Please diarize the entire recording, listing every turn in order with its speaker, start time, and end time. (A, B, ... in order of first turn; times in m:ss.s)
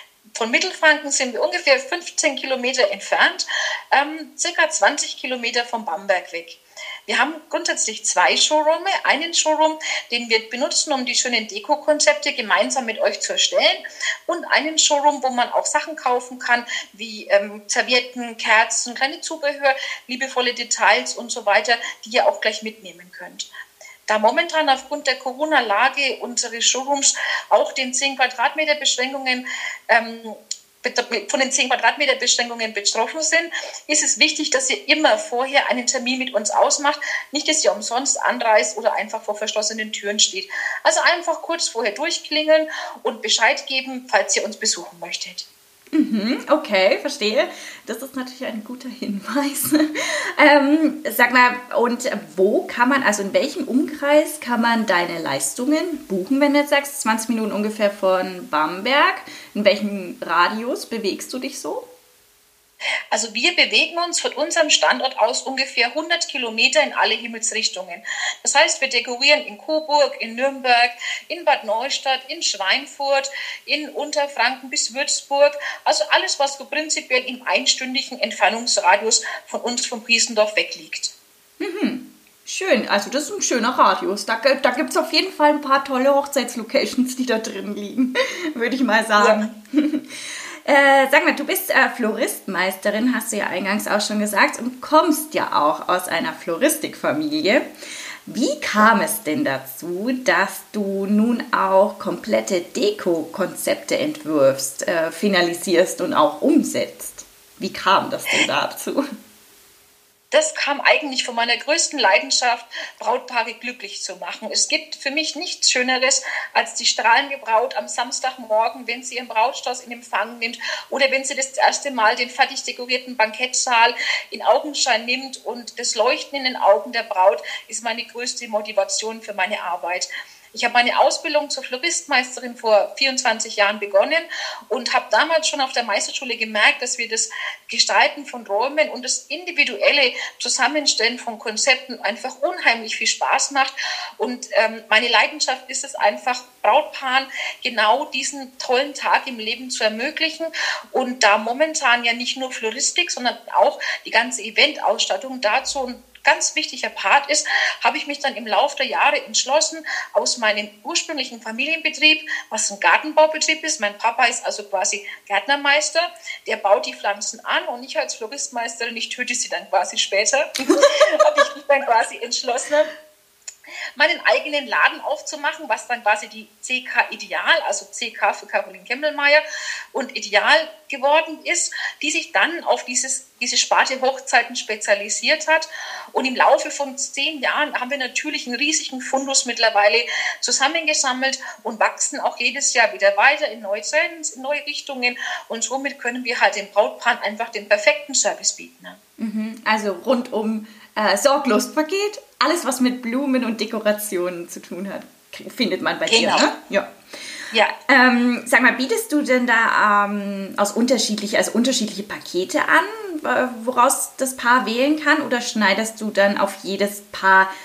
0:00.4-0:23.5 A
0:24.1-0:45.5 A
0:45.9-1:01.9 B
1:03.1-1:21.1 A
1:21.6-1:37.6 B
1:29.2-1:29.4 A
1:38.2-1:49.0 B
1:50.3-2:52.9 A
2:50.7-2:51.3 B
2:54.0-2:59.4 A
2:59.9-3:19.0 A
3:19.2-3:26.9 B
3:26.1-3:26.5 A
3:27.8-3:37.5 B